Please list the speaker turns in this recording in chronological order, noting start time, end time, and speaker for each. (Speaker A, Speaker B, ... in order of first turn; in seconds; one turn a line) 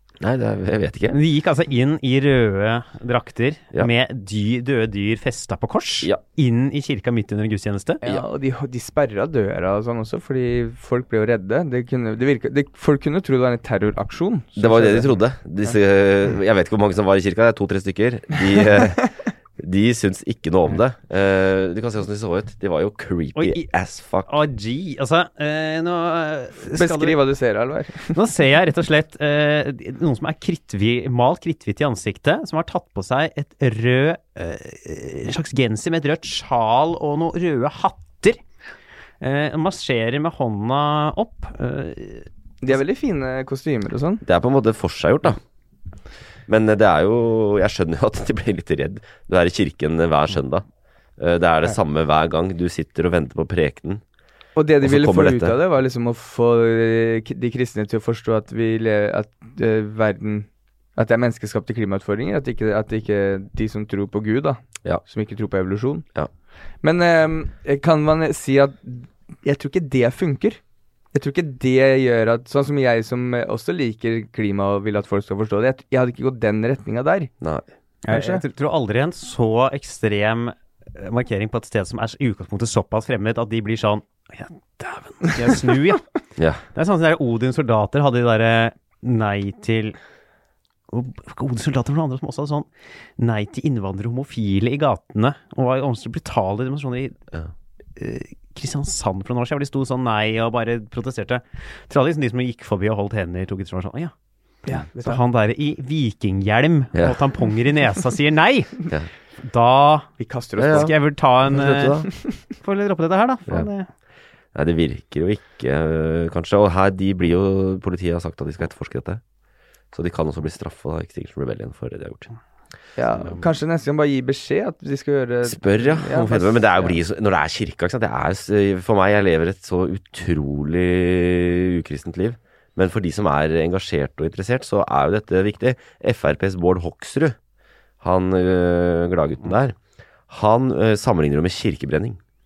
Speaker A: 0.2-1.2
Speaker B: 1.1-8.0
Speaker C: 8.0-15.1
Speaker A: 14.6-24.3
Speaker B: 23.4-23.6
Speaker B: 24.3-27.1
Speaker C: 26.7-28.1
Speaker B: 28.1-38.4
Speaker B: 39.2-42.3
Speaker C: 42.6-44.2
Speaker A: 44.2-45.4
Speaker A: 46.5-50.6
Speaker A: 51.2-54.0
Speaker C: 54.5-66.0
Speaker A: 54.8-55.6
Speaker C: 66.8-70.6
Speaker C: 71.1-77.3
Speaker B: 78.0-86.0
Speaker C: 78.1-78.4
Speaker A: 86.4-86.6
Speaker B: 86.7-90.0
Speaker B: 90.9-97.2
Speaker B: 98.0-104.1
Speaker C: 104.7-105.2
Speaker B: 105.0-108.8
Speaker B: 109.4-110.1
Speaker C: 110.2-110.9
Speaker A: 110.6-112.1
Speaker B: 110.7-112.0
Speaker B: 112.6-113.9
Speaker A: 114.5-119.2
Speaker A: 119.9-122.3
Speaker C: 123.0-127.0
Speaker A: 125.4-137.3
Speaker A: 138.0-139.8
Speaker A: 140.3-142.2